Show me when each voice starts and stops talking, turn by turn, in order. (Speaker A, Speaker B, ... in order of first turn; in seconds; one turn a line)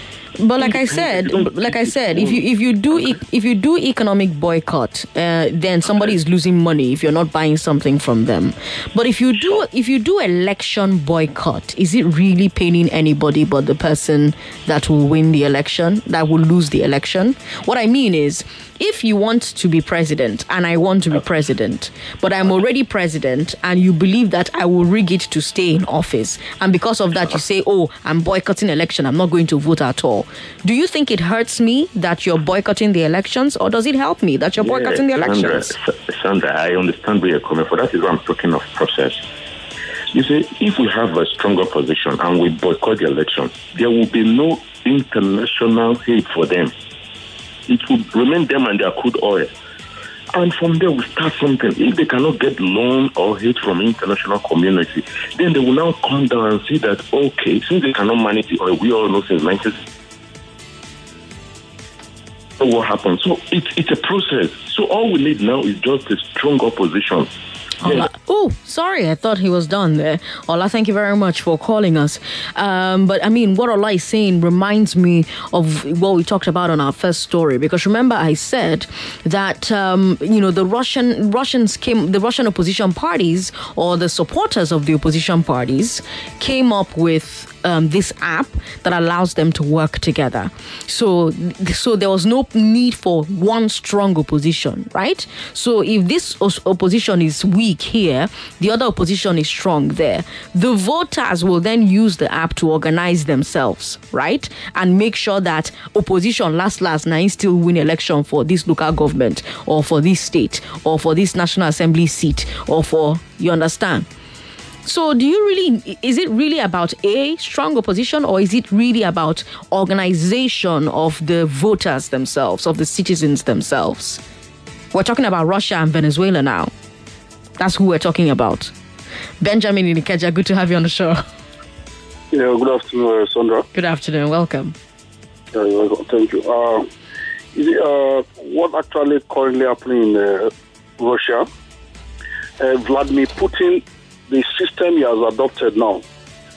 Speaker A: 0.4-35.7
Speaker B: 0.6-2.4
Speaker B: 34.6-39.2
Speaker B: 40.1-46.7
Speaker B: 47.7-49.5
Speaker B: 50.3-59.9
Speaker B: 62.6-67.3
Speaker A: 67.8-114.1
Speaker A: 114.8-124.2
Speaker A: 124.9-126.7
Speaker A: 127.6-128.7
Speaker A: 129.4-131.2
Speaker C: 132.3-133.7
Speaker A: 133.7-134.8
Speaker C: 135.5-136.9
Speaker C: 137.5-141.5
Speaker C: 142.6-146.0